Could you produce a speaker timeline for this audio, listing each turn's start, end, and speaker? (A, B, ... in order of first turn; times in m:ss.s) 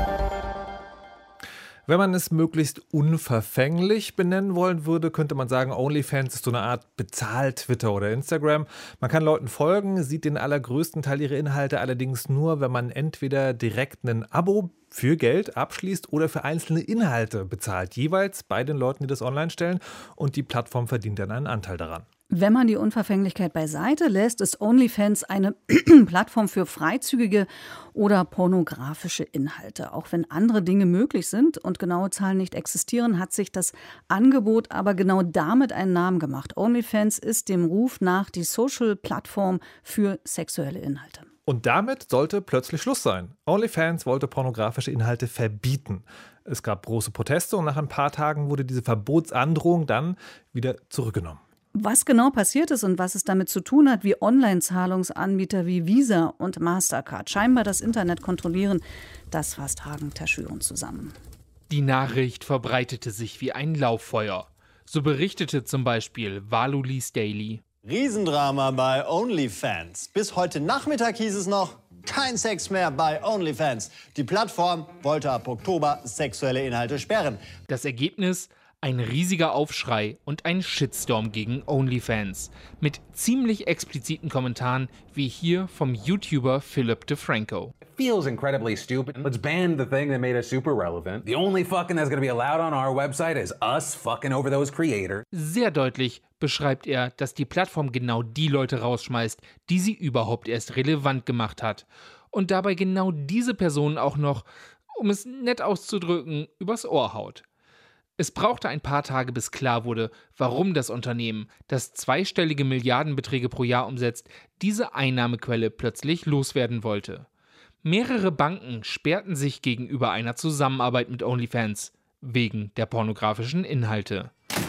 0:01.9-0:22.1 A
0:22.3-0:41.3 B
0:41.5-0:51.4 A
0:51.7-1:01.1 B
1:01.7-1:07.6 C
1:07.8-1:17.4 D
1:17.7-1:27.7 C
1:27.9-1:35.2 E
1:35.3-1:47.4 C
1:48.2-1:57.3 C
1:57.8-2:04.3 C